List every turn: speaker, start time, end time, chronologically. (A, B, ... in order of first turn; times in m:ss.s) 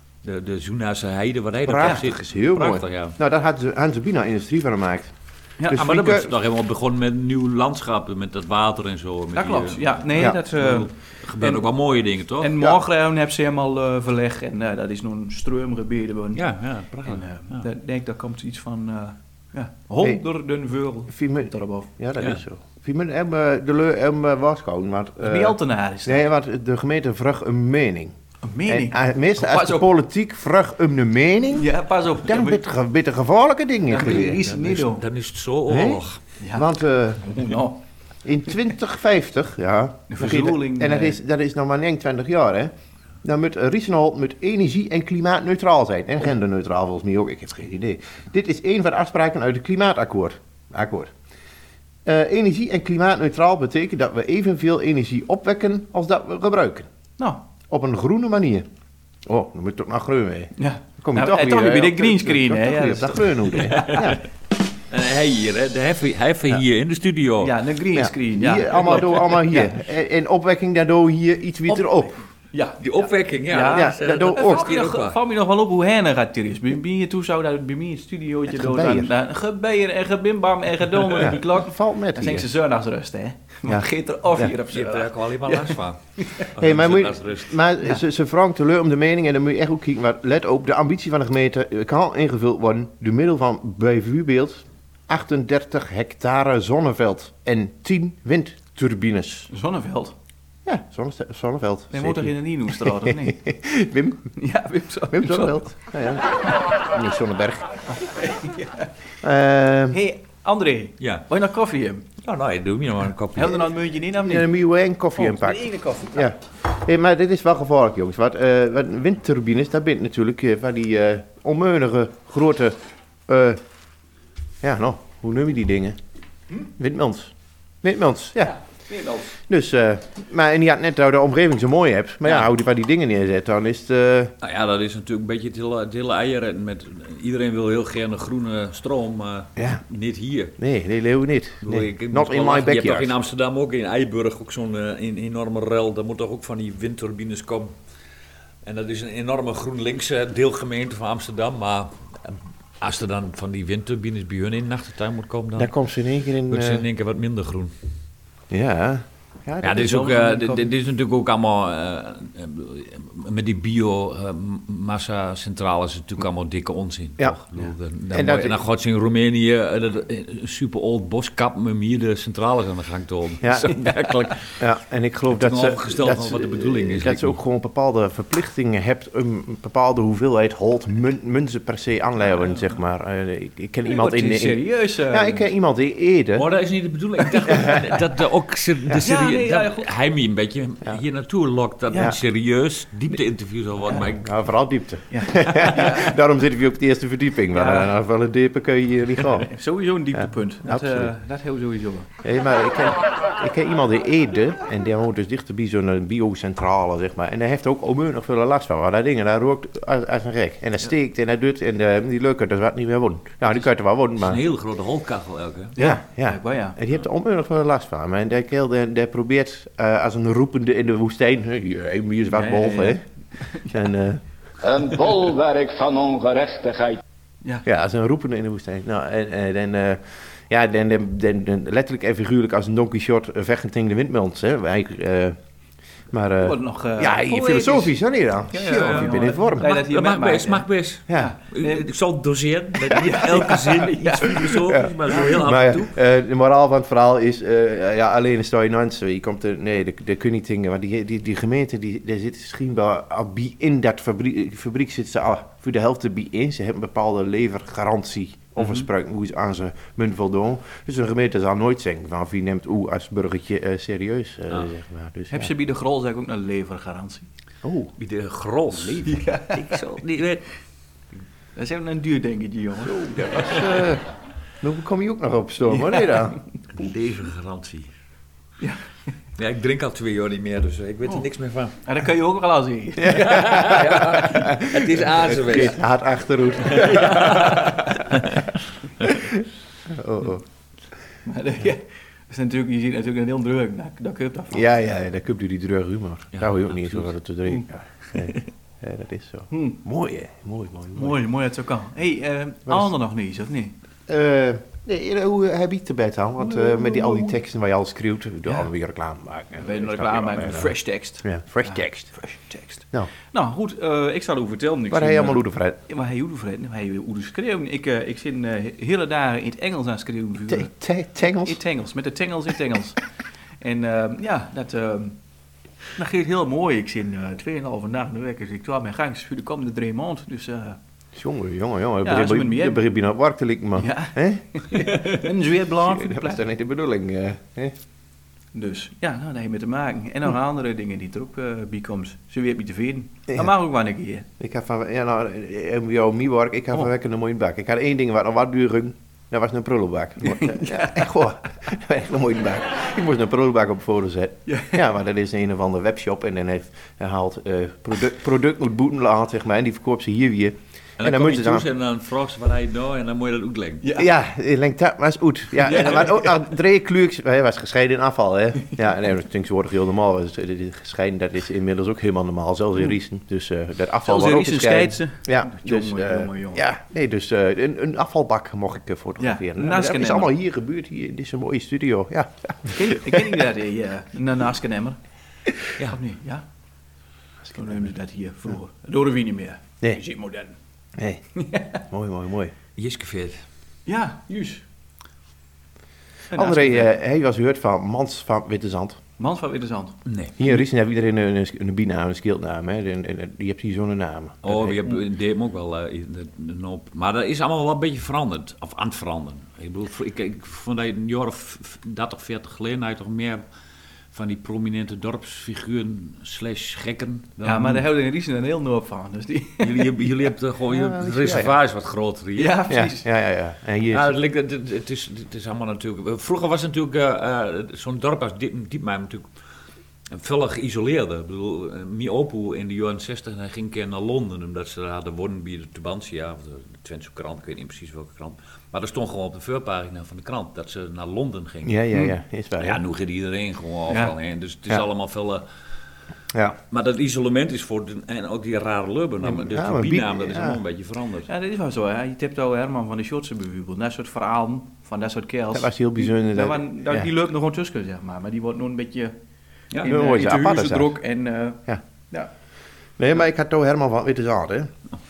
0:00.2-0:03.2 A
0:01.6-0:05.1 B
0:05.7-0:06.3 B
0:05.7-0:12.5 A
0:09.3-0:11.6 C
0:12.4-0:16.4 C
0:16.3-0:17.6 A
0:17.0-0:21.9 C
0:21.1-0:28.1 B
0:25.2-0:26.2 C
0:28.4-0:29.9 C
0:28.6-0:34.7 B
0:31.5-0:32.6 C
0:33.9-0:35.0 C
0:34.6-0:36.2 A
0:35.7-0:36.0 B
0:36.4-0:36.7 C
0:36.5-0:37.4 B
0:37.2-0:37.8 C
0:38.2-0:42.7 B
0:40.1-0:41.2 C
0:43.2-0:51.1 B
0:52.0-0:56.9 B
0:57.2-0:57.4 C
0:57.7-0:58.7 B
0:59.2-1:04.2 B
1:00.6-1:04.1 C
1:03.9-1:04.1 A
1:04.9-1:07.6 A
1:07.4-1:09.8 C
1:07.9-1:12.1 B
1:11.7-1:26.5 C
1:12.8-1:15.2 A
1:13.7-1:14.7 B
1:18.5-1:19.1 B
1:21.2-1:22.5 B
1:23.7-1:24.5 B
1:24.7-1:27.6 A
1:26.6-1:39.5 B
1:39.5-1:40.1 C
1:40.6-1:44.3 B
1:41.9-1:43.4 C
1:44.4-1:45.6 C
1:45.1-1:47.8 B
1:48.0-1:48.9 C
1:49.2-1:50.0 B
1:49.9-1:52.1 C
1:51.0-1:51.2 A
1:52.2-1:53.7 A
1:53.3-1:54.5 C
1:54.2-2:03.6 B
1:55.2-1:56.3 C
2:04.6-2:06.0 B
2:06.7-2:08.6 B
2:08.4-2:09.4 C
2:09.5-2:14.3 B
2:14.4-2:20.5 A
2:19.6-2:19.8 B
2:20.6-2:23.1 B
2:21.6-2:27.7 A
2:28.6-2:35.7 A
2:35.6-2:36.8 B
2:36.5-2:37.7 A
2:38.5-2:40.2 B
2:39.6-2:54.6 A
2:39.8-2:40.7 C
2:48.1-2:48.6 B
2:53.4-2:53.8 B
2:54.5-3:06.4 B
2:55.3-2:57.4 A
3:03.9-3:05.5 C
3:06.3-3:14.4 A
3:09.0-3:09.9 C
3:14.1-3:19.5 B
3:15.1-3:16.1 C
3:17.5-3:17.9 C
3:19.4-3:22.1 C
3:20.1-3:21.1 B
3:22.2-3:34.4 B
3:34.2-3:35.7 A
3:35.8-3:36.8 C
3:35.8-3:43.0 B
3:42.3-3:43.8 C
3:43.5-3:44.2 B
3:44.6-3:47.0 D
3:47.6-3:55.4 B
3:56.1-3:59.6 B
3:56.4-3:57.9 C
3:58.5-4:01.9 C
3:58.6-4:05.9 A
4:02.9-4:04.6 C
4:04.6-4:25.5 B
4:25.3-4:27.3 C
4:27.6-4:27.9 B
4:28.0-4:30.4 A
4:29.0-4:29.8 C
4:31.6-4:33.5 C
4:32.8-4:34.0 B
4:34.6-4:36.4 B
4:35.7-4:36.4 C
4:36.7-4:37.9 A
4:38.6-4:38.8 C
4:39.4-4:41.8 A
4:41.8-4:44.0 C
4:43.0-4:47.5 B
4:43.1-4:45.9 A
4:46.6-4:48.4 A
4:46.7-4:48.1 C
4:49.0-4:50.4 B
4:51.2-4:54.7 C
4:54.5-5:01.2 B
4:56.3-4:57.1 A
4:59.5-4:59.8 C
5:01.0-5:03.8 C
5:04.1-5:12.1 B
5:06.4-5:07.4 C
5:09.6-5:20.7 C
5:14.9-5:15.8 B
5:20.5-5:21.6 B
5:21.4-5:23.0 C
5:23.6-5:25.2 C
5:25.9-5:30.8 C
5:31.2-5:34.7 B
5:32.0-5:32.8 C
5:33.8-5:36.5 C
5:35.7-5:37.8 B
5:38.5-5:44.3 C
5:44.4-6:01.6 B
5:50.2-5:51.1 C
5:54.5-5:54.8 C
6:01.0-6:03.8 A
6:03.9-6:23.4 B
6:05.6-6:06.3 C
6:14.0-6:16.6 C
6:19.2-6:20.3 C
6:22.7-6:25.0 C
6:25.8-6:26.4 C
6:27.4-6:27.7 B
6:27.5-6:30.6 C
6:31.0-6:31.2 B
6:31.3-6:31.8 C
6:31.8-6:32.5 B
6:32.8-6:33.4 A
6:33.8-6:34.6 C
6:36.3-6:36.9 C
6:36.3-6:39.0 B
6:39.2-6:40.0 C
6:40.0-6:40.3 A
6:40.4-6:44.8 B
6:44.4-6:53.4 A
6:54.1-6:57.8 A
6:57.4-6:59.9 C
6:59.6-7:02.6 A
7:00.7-7:01.5 B
7:02.4-7:03.1 C
7:02.7-7:04.1 B
7:03.9-7:09.3 A
7:10.1-7:21.8 A
7:21.6-7:22.8 B
7:22.6-7:25.4 A
7:23.9-7:24.1 C
7:26.7-7:31.3 A
7:29.2-7:30.6 B
7:31.3-7:39.1 C
7:35.5-7:37.1 B
7:39.8-7:42.3 C
7:39.8-7:40.9 B
7:43.0-7:44.7 B